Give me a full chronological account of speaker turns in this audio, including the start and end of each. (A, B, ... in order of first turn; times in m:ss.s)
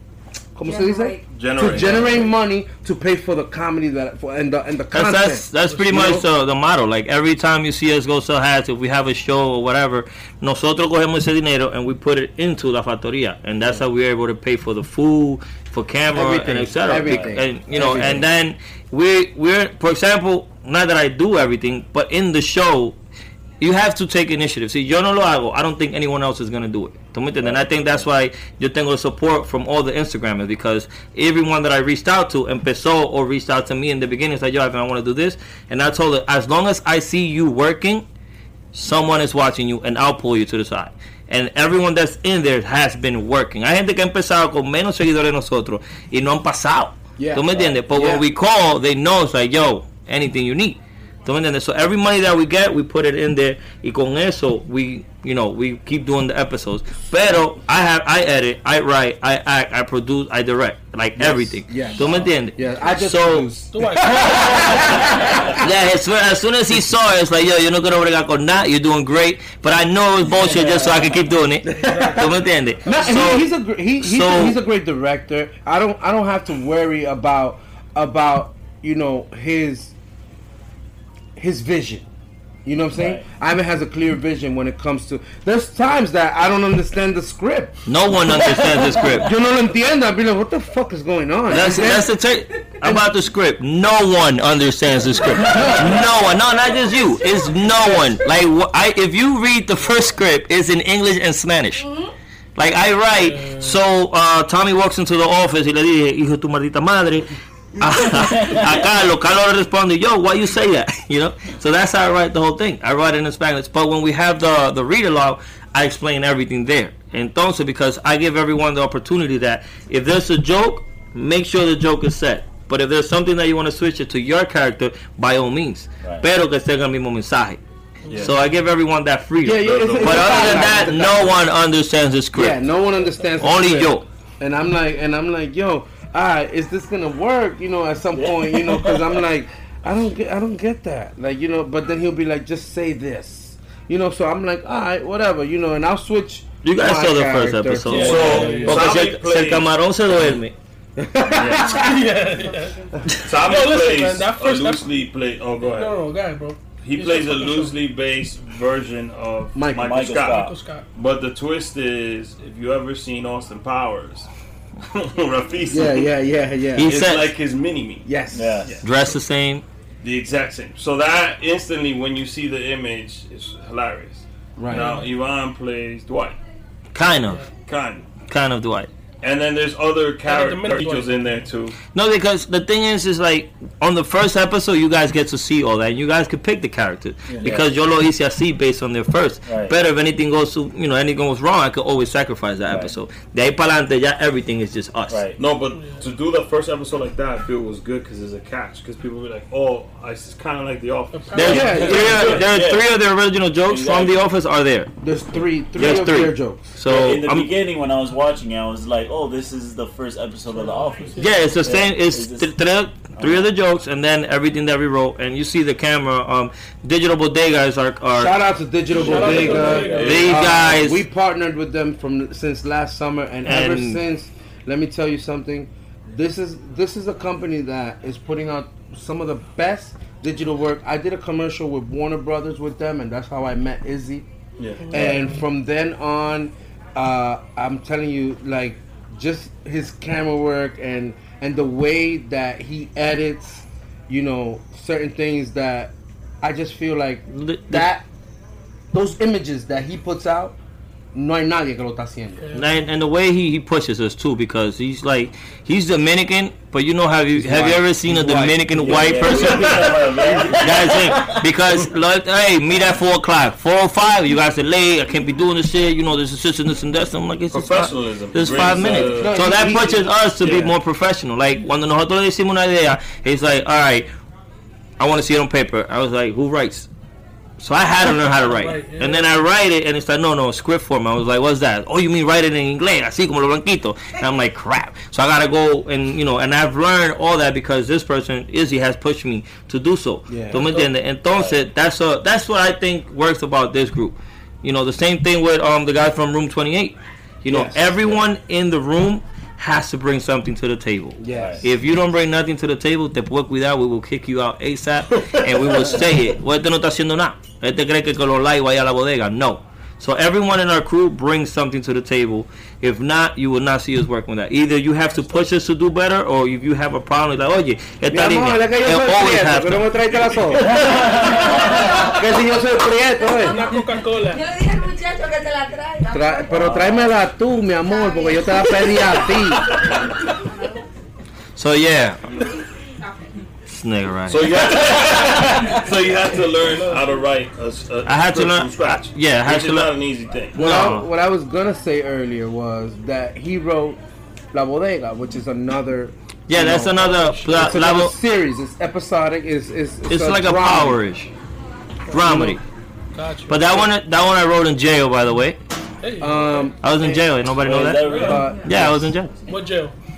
0:00.6-0:06.2 A
0:00.6-0:01.8 B
0:01.4-0:02.3 C
0:04.9-0:23.0 D
0:16.1-0:18.2 A
0:16.9-0:18.1 E
0:23.6-0:38.1 D
0:27.4-0:27.9 E
0:38.7-1:03.5 D
0:47.2-0:48.2 A
1:01.2-1:05.0 A
1:03.7-1:04.8 F
1:04.0-1:05.3 E
1:05.5-1:13.5 D
1:10.4-1:11.1 E
1:11.6-1:12.3 A
1:11.8-1:13.2 F
1:12.9-1:19.9 A
1:14.0-1:14.6 D
1:21.4-1:22.1 A
1:22.6-1:27.8 A
1:23.0-1:23.3 E
1:27.9-1:29.3 D
1:28.4-1:29.2 E
1:29.1-1:32.1 A
1:31.5-1:41.9 D
1:32.8-1:33.1 A
1:35.4-1:36.0 A
1:35.4-1:36.0 E
1:41.8-1:42.1 B
1:42.6-2:07.6 D
1:43.2-1:43.8 F
1:48.3-1:48.8 E
2:08.0-2:08.3 F
2:08.1-2:08.3 C
2:08.2-2:12.8 D
2:09.4-2:11.3 A
2:09.6-2:11.3 C
2:12.3-2:28.7 A
2:13.4-2:14.0 D
2:18.2-2:19.1 E
2:26.6-2:30.5 D
2:27.9-2:29.7 C
2:28.0-2:29.0 F
2:31.0-2:32.1 A
2:31.3-2:31.7 C
2:31.6-2:34.9 F
2:33.2-2:36.0 C
2:35.6-2:37.8 F
2:36.8-2:44.3 C
2:39.6-2:40.1 A
2:39.8-2:40.6 E
2:40.2-2:40.8 F
2:44.9-2:46.1 C
2:45.7-2:47.0 A
2:46.8-2:47.3 D
2:46.8-2:48.1 C
2:48.0-2:48.7 A
2:48.3-2:48.7 E
2:48.8-2:49.6 D
2:50.0-2:56.4 C
2:54.6-2:55.0 A
2:54.7-2:55.1 F
2:56.9-2:57.5 D
2:57.7-2:58.1 C
2:58.3-2:58.9 D
2:59.2-3:01.8 C
3:00.2-3:01.4 F
3:01.9-3:15.3 D
3:07.3-3:07.6 E
3:09.5-3:09.8 E
3:12.7-3:12.9 E
3:15.1-3:15.4 E
3:15.4-3:22.5 C
3:15.8-3:16.0 F
3:21.1-3:22.4 F
3:21.4-3:24.9 D
3:21.5-3:22.4 A
3:21.7-3:22.9 E
3:23.6-3:24.2 E
3:25.0-3:26.7 A
3:25.8-3:27.5 D
3:26.9-3:32.5 E
3:30.5-3:31.4 F
3:31.2-3:38.3 D
3:33.2-3:33.5 E
3:38.1-3:54.3 A
3:38.9-3:40.3 E
3:39.0-3:40.4 F
3:39.9-3:40.5 C
3:39.9-3:41.0 D
3:43.5-3:44.0 D
3:54.6-3:55.1 C
3:54.8-3:55.4 F
3:54.9-4:08.0 A
4:07.3-4:07.9 D
4:08.9-4:10.6 A
4:11.1-4:12.5 A
4:12.4-4:12.7 F
4:12.6-4:34.1 D
4:17.3-4:19.7 A
4:18.8-4:21.4 E
4:27.5-4:29.4 C
4:28.8-4:30.1 A
4:30.4-4:30.7 C
4:35.0-4:36.9 D
4:37.6-5:20.0 D
4:38.4-4:39.2 F
4:50.3-4:50.9 A
4:51.3-4:51.6 E
4:57.5-4:57.9 A
5:01.2-5:01.7 A
5:01.4-5:01.6 E
5:18.1-5:23.6 A
5:20.6-5:22.1 E
5:23.4-5:24.4 F
5:24.1-5:27.1 B
5:26.1-5:29.8 A
5:26.5-5:27.2 E
5:27.9-5:30.8 B
5:29.8-5:30.1 C
5:31.6-5:32.3 D
5:33.0-5:33.5 B
5:33.7-5:34.6 D
5:34.3-5:40.6 C
5:34.6-5:35.8 E
5:36.4-5:37.3 F
5:38.1-5:39.9 D
5:40.6-5:44.0 A
5:40.6-5:41.1 D
5:44.5-5:51.0 A
5:46.5-5:48.1 D
5:47.0-5:47.8 F
5:50.1-5:51.3 D
5:52.1-5:52.6 D
5:52.1-5:52.6 A
5:53.2-5:53.8 F
5:53.5-5:55.6 D
5:56.0-5:56.7 F
5:56.2-5:57.2 A
5:56.8-5:59.3 D
5:57.6-5:58.6 E
5:58.0-5:58.5 F
5:58.2-5:59.1 A
5:58.3-5:58.6 B
5:59.5-5:59.9 F